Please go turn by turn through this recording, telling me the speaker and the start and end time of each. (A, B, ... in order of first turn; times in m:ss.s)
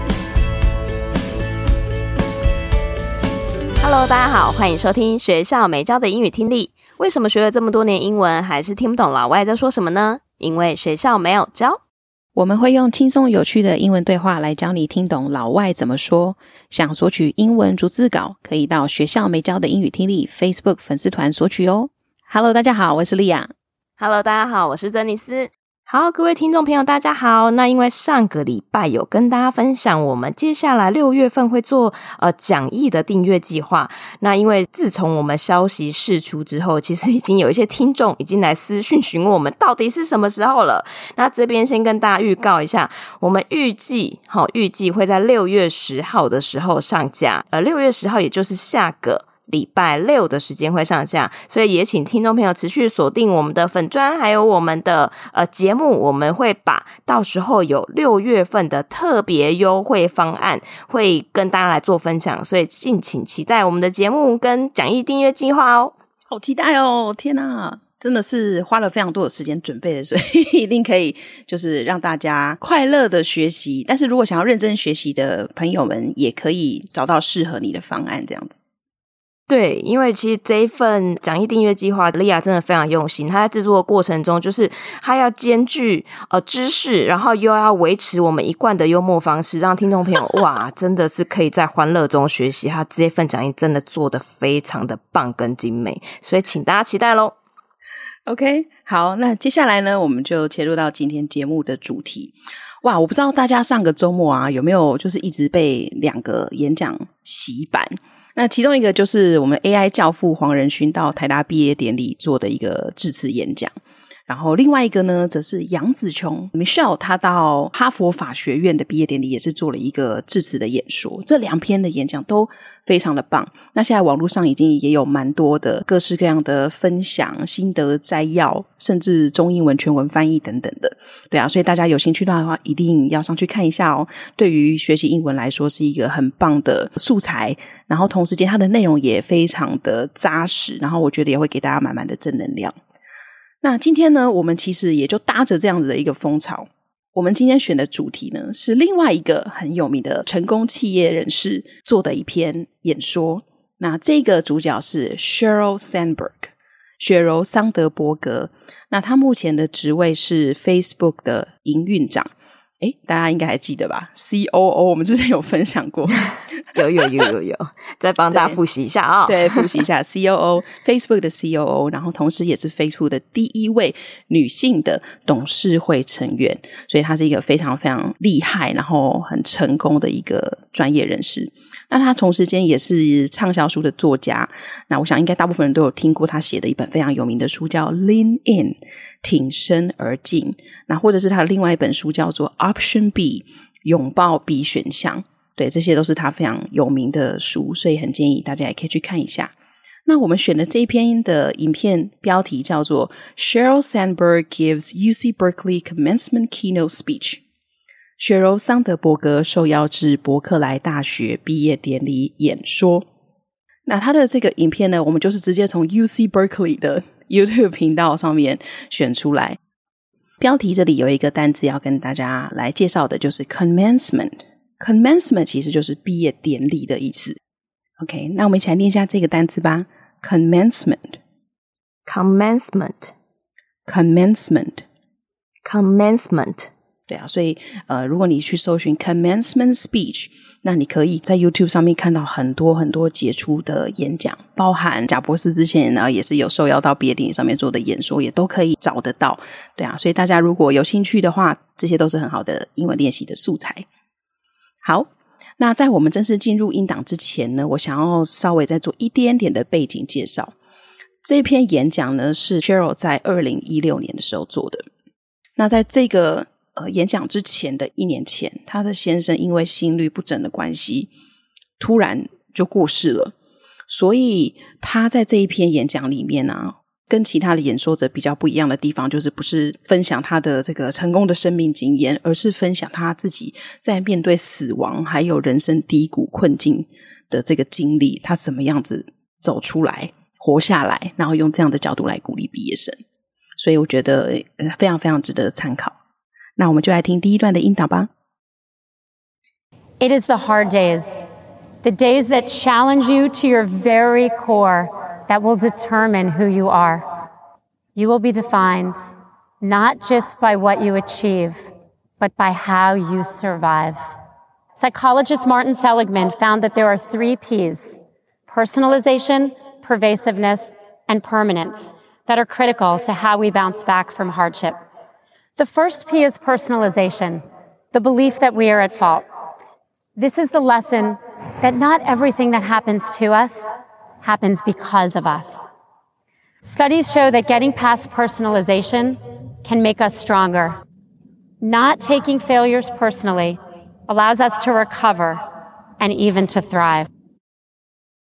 0:03.8-0:11.8 A
0:12.4-0:23.5 B
0:24.0-1:05.9 A
1:06.3-1:18.6 B
1:19.5-1:37.4 A
1:38.3-1:53.7 B
1:54.3-2:22.8 B
2:23.6-2:46.4 B
2:46.8-2:49.6 A
2:48.3-2:48.6 B
2:49.2-3:19.5 B
3:20.1-3:27.4 B
3:28.2-3:33.1 B
3:33.9-3:39.6 B
3:40.4-3:47.4 B
3:48.0-3:51.2 B
3:52.1-3:53.1 A
3:53.9-3:54.8 B
3:55.6-3:56.7 A
3:57.1-4:13.9 B
4:14.8-4:15.1 B
4:15.6-4:20.6 B
4:21.2-4:24.9 B
4:25.6-4:31.1 B
4:31.8-4:33.3 B
4:33.9-4:53.0 B
4:53.6-4:56.0 B
4:56.6-4:58.1 B
5:00.0-5:01.2 C
5:01.8-5:07.0 C
5:08.0-5:09.0 C
5:09.6-5:11.6 C
5:12.2-5:14.0 C
5:14.8-5:18.0 C
5:18.5-5:24.8 C
5:25.6-5:29.2 C
5:30.2-5:33.7 C
5:34.2-5:35.7 C
5:36.6-5:40.8 C
5:41.6-5:45.4 C
5:46.0-5:47.1 C